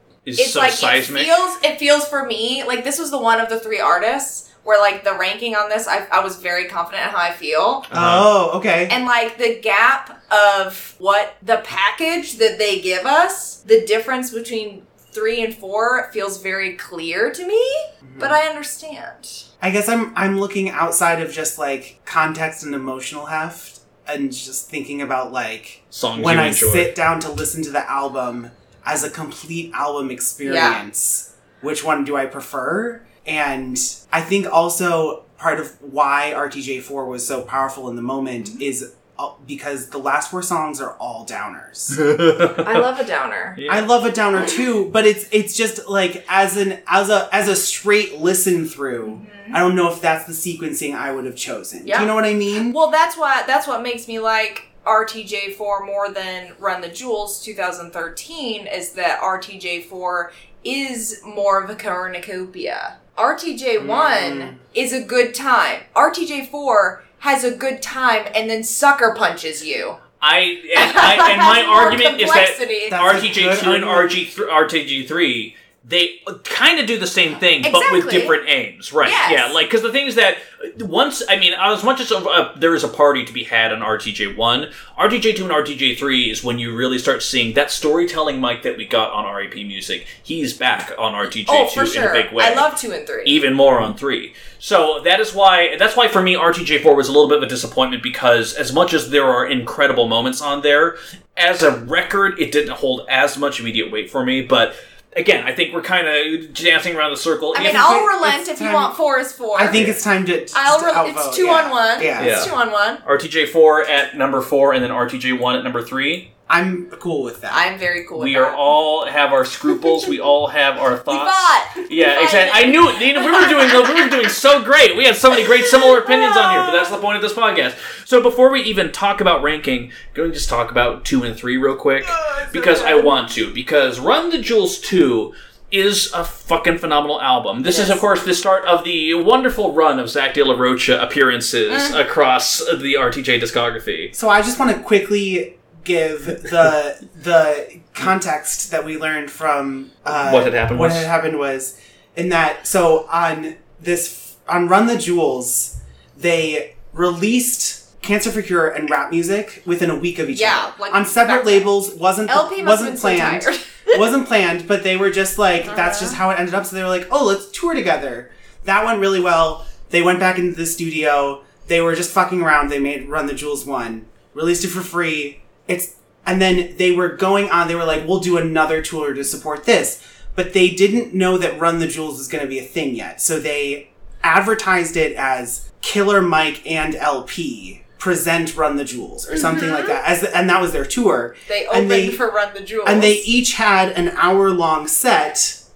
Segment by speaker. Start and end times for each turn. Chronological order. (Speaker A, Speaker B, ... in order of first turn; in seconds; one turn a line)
Speaker A: 0.2-1.3
Speaker B: 0.4-7.9
Speaker A: 7.9-8.3
Speaker C: 7.9-9.0
Speaker B: 8.9-19.4
Speaker C: 18.0-18.4
Speaker C: 19.6-42.0
Speaker A: 25.9-26.9
Speaker B: 30.4-30.8
Speaker A: 41.9-42.9
Speaker B: 42.6-43.6
Speaker A: 43.6-43.9
Speaker C: 43.7-52.8
Speaker B: 49.0-49.6
Speaker B: 51.9-70.0
Speaker C: 63.8-64.6
Speaker A: 70.2-92.7
Speaker B: 70.8-73.1
Speaker C: 72.9-74.1
Speaker B: 77.6-78.4
Speaker B: 79.0-79.6
Speaker B: 91.4-93.4
Speaker A: 93.2-108.0
Speaker B: 107.5-109.9
Speaker C: 107.6-109.0
Speaker C: 109.5-112.4
Speaker A: 109.7-110.0
Speaker B: 110.5-113.0
Speaker A: 112.2-116.3
Speaker C: 116.5-117.6
Speaker B: 117.5-118.6
Speaker A: 118.2-144.1
Speaker B: 119.7-120.1
Speaker B: 121.1-124.3
Speaker B: 125.3-126.9
Speaker B: 132.1-133.3
Speaker B: 137.7-138.0
Speaker B: 141.7-142.0
Speaker C: 144.1-192.2
Speaker A: 150.2-151.1
Speaker B: 160.3-161.7
Speaker B: 162.3-164.1
Speaker B: 165.6-166.2
Speaker B: 189.3-190.0
Speaker B: 191.5-193.3
Speaker C: 192.8-195.6